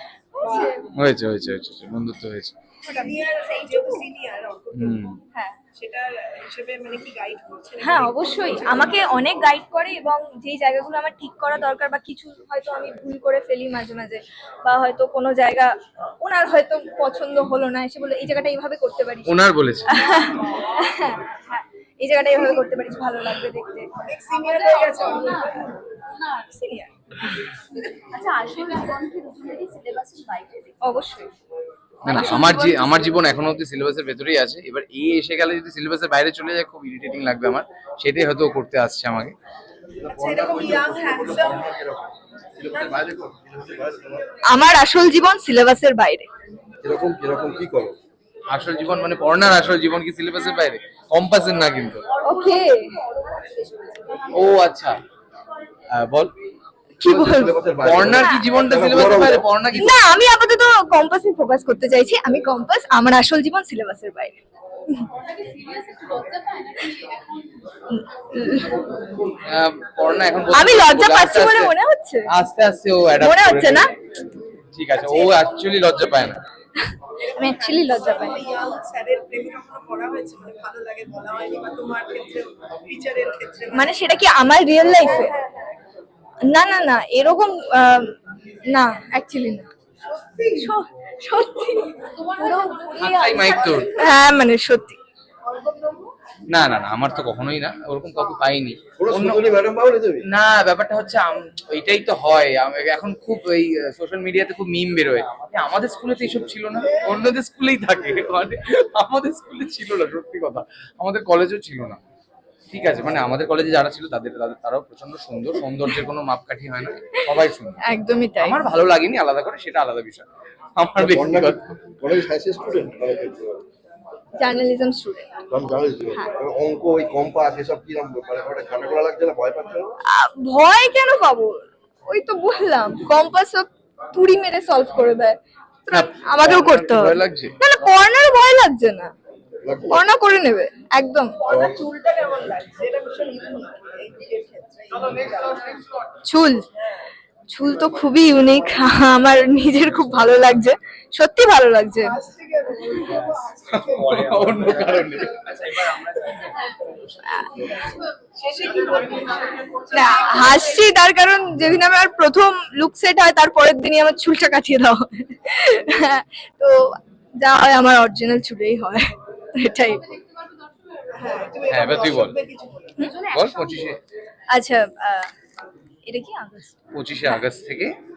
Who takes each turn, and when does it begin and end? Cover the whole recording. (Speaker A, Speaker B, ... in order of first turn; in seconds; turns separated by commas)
Speaker A: 0.3-0.9, Speaker B: 0.4-0.7, Speaker C: 0.9-2.5, Speaker A: 2.8-4.0, Speaker B: 2.9-5.1, Speaker C: 4.7-5.2, Speaker A: 5.3-5.6, Speaker B: 5.7-9.0, Speaker A: 7.8-15.7, Speaker A: 16.2-19.3, Speaker C: 19.2-19.9, Speaker A: 19.9-23.9, Speaker B: 20.1-20.6, Speaker B: 24.0-25.7, Speaker D: 24.4-25.5, Speaker A: 24.9-25.3, Speaker A: 26.5-26.9, Speaker D: 28.1-30.8, Speaker A: 30.8-31.3, Speaker A: 32.0-33.1, Speaker C: 32.0-39.3, Speaker E: 40.0-44.2, Speaker B: 40.0-41.7, Speaker A: 44.5-46.3, Speaker E: 46.8-47.9, Speaker C: 48.5-52.0, Speaker A: 52.2-52.9, Speaker B: 52.4-54.1, Speaker D: 54.0-54.2, Speaker C: 54.3-55.0, Speaker C: 55.9-56.3, Speaker A: 57.0-57.6, Speaker E: 57.0-59.5, Speaker C: 57.8-60.0, Speaker A: 58.1-58.5, Speaker A: 59.7-64.4, Speaker D: 65.2-67.4, Speaker A: 67.9-68.8, Speaker C: 69.4-71.7, Speaker A: 70.5-72.3, Speaker C: 72.3-73.9, Speaker A: 73.2-73.9, Speaker C: 74.7-76.4, Speaker B: 74.9-75.5, Speaker B: 77.2-84.1, Speaker A: 77.3-78.4, Speaker A: 83.7-85.3, Speaker B: 84.8-85.7, Speaker A: 86.5-88.1, Speaker A: 88.7-89.7, Speaker B: 90.0-90.7, Speaker A: 90.5-95.0, Speaker D: 92.3-93.5, Speaker B: 92.4-94.1, Speaker C: 93.0-93.9, Speaker B: 95.4-96.1, Speaker C: 96.5-99.4, Speaker E: 99.0-100.2, Speaker C: 100.3-112.0, Speaker C: 112.7-117.8, Speaker A: 117.8-118.6, Speaker C: 118.4-120.2, Speaker C: 120.8-121.7, Speaker E: 121.0-123.6, Speaker A: 124.4-125.3, Speaker E: 125.5-129.9, Speaker A: 130.1-139.1, Speaker C: 135.9-137.5, Speaker E: 139.6-140.0, Speaker A: 139.9-141.3, Speaker B: 141.4-145.9, Speaker A: 146.2-146.6, Speaker A: 147.5-152.1, Speaker B: 152.0-154.5, Speaker C: 153.7-156.9, Speaker A: 157.2-157.8, Speaker B: 158.3-160.8, Speaker A: 159.9-170.0, Speaker B: 171.1-173.1, Speaker C: 171.7-172.4, Speaker D: 173.1-173.8, Speaker C: 173.2-174.0, Speaker A: 174.5-175.3, Speaker A: 176.1-177.4, Speaker C: 176.9-177.9